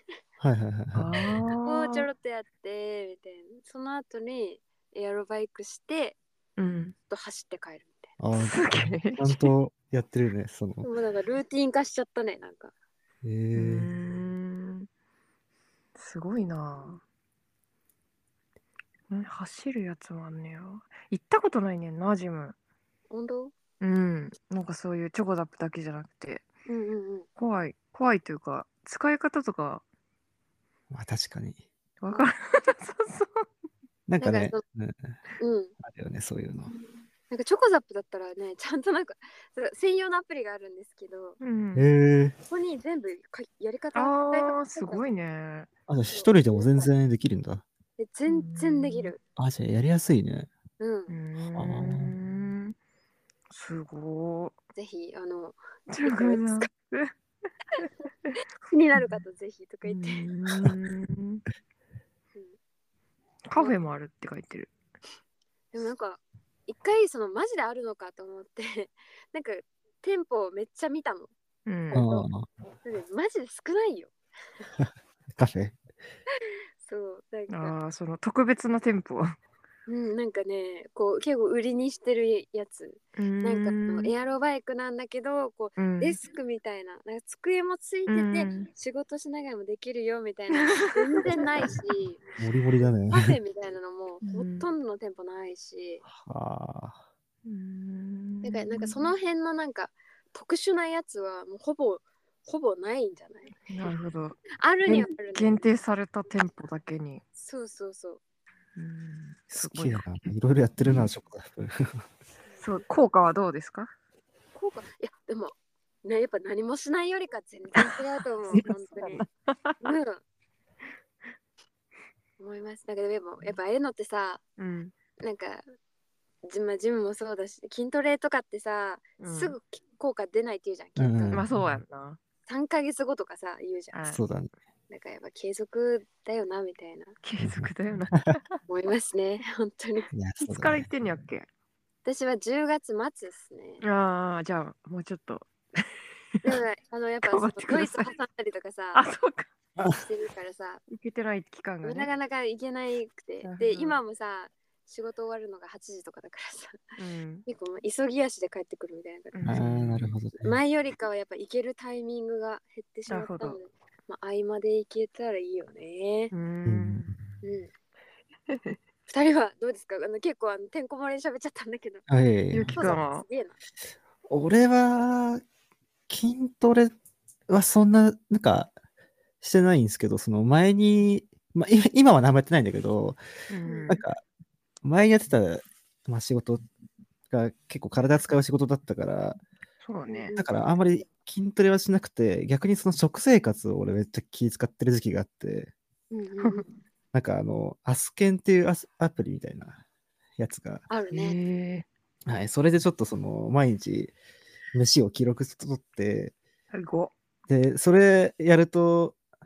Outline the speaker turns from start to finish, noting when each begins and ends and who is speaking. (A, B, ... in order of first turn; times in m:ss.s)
0:00.4-0:01.1 A
0:00.9-0:02.0 B
0:01.6-0:06.2 C
0:06.6-0:06.9 B
0:07.1-0:08.1 C
0:08.2-0:10.9 A
0:08.4-0:09.5 B
0:10.8-0:12.7 C
0:13.2-0:13.9 A
0:13.5-0:14.9 B
0:16.0-0:17.0 B
0:19.1-0:22.5 B
0:23.1-0:23.5 C
0:23.8-0:26.4 B
0:26.7-0:27.3 C
0:27.4-0:29.8 B
0:30.9-0:31.6 A
0:32.0-0:33.5 B
0:34.1-0:35.2 A
0:34.2-0:34.6 C
0:35.4-0:35.7 C
0:35.8-0:36.7 A
0:37.3-0:41.4 C
0:41.4-0:41.9 B
0:41.7-0:42.3 A
0:42.5-0:45.1 C
0:43.9-0:45.7 B
0:45.9-0:47.6 A
0:46.1-0:46.9 C
0:48.0-0:49.2 C
0:48.3-0:49.1 B
0:49.4-0:50.5 A
0:50.8-0:51.2 C
0:51.1-0:52.7 B
0:51.5-0:52.1 A
0:53.5-0:54.5 B
0:54.7-0:56.7 C
0:55.9-0:57.1 B
0:57.7-0:58.3 B
0:58.3-1:00.2 C
0:59.8-1:01.4 B
1:03.5-1:04.7 B
1:05.7-1:11.3 C
1:11.6-1:12.0 B
1:11.9-1:12.3 C
1:11.9-1:12.5 A
1:12.8-1:14.1 C
1:15.4-1:15.8 A
1:16.8-1:17.7 C
1:17.5-1:19.4 B
1:19.9-1:32.2 C
1:23.2-1:24.1 B
1:25.8-1:26.2 B
1:28.1-1:28.7 B
1:30.6-1:31.6 B
1:32.4-1:33.4 A
1:33.1-1:36.0 C
1:34.2-1:34.7 B
1:36.0-1:37.0 A
1:37.4-1:39.1 B
1:38.4-1:43.6 C
1:43.7-1:47.2 B
1:44.6-1:45.6 C
1:47.4-1:48.2 C
1:48.8-1:50.2 B
1:49.5-1:52.0 A
1:50.8-1:51.1 B
1:52.6-1:53.9 B
1:54.5-1:55.5 C
1:56.0-1:59.2 C
1:57.8-1:59.9 B
1:59.8-2:00.2 C
2:02.4-2:04.4 C
2:04.6-2:04.9 B
2:05.2-2:05.6 C
2:06.4-2:11.4 C
2:09.2-2:09.6 B
2:11.0-2:11.7 A
2:11.3-2:12.2 B
2:12.4-2:14.0 C
2:13.9-2:14.2 B
2:14.1-2:14.5 A
2:14.9-2:17.2 C
2:17.2-2:18.6 B
2:17.4-2:17.7 A
2:18.7-2:20.1 C
2:20.1-2:20.9 A
2:20.4-2:21.5 B
2:22.0-2:23.8 C
2:23.8-2:25.8 B
2:26.4-2:29.0 C
2:27.2-2:28.1 B
2:28.9-2:29.5 B
2:29.8-2:30.0 A
2:29.9-2:30.8 C
2:30.9-2:32.1 B
2:31.8-2:36.8 C
2:33.4-2:34.0 B
2:37.0-2:37.4 B
2:37.4-2:39.6 C
2:39.3-2:40.2 B
2:39.4-2:40.6 A
2:40.4-2:46.3 C
2:43.1-2:43.6 B
2:46.3-2:47.2 B
2:46.6-2:47.0 A
2:47.4-2:47.7 C
2:48.5-2:48.8 B
2:49.1-2:52.0 C
2:52.1-2:53.0 A
2:52.5-2:53.2 B
2:52.7-2:53.6 C
2:54.3-2:55.4 A
2:56.1-2:56.9 A
2:57.5-2:58.7 A
2:59.4-3:03.2 A
3:03.5-3:04.0 B
3:03.6-3:04.0 C
3:03.9-3:04.2 A
3:04.8-3:06.6 A
3:07.3-3:09.4 A
3:09.8-3:10.3 B
3:10.1-3:10.5 C
3:10.3-3:15.7 A
3:16.1-3:16.6 C
3:16.4-3:16.7 B
3:17.1-3:19.8 A
3:20.4-3:20.8 A
3:20.9-3:21.4 C
3:21.1-3:21.8 B
3:22.2-3:24.1 A
3:24.7-3:26.3 A
3:26.7-3:27.1 B
3:27.5-3:29.2 A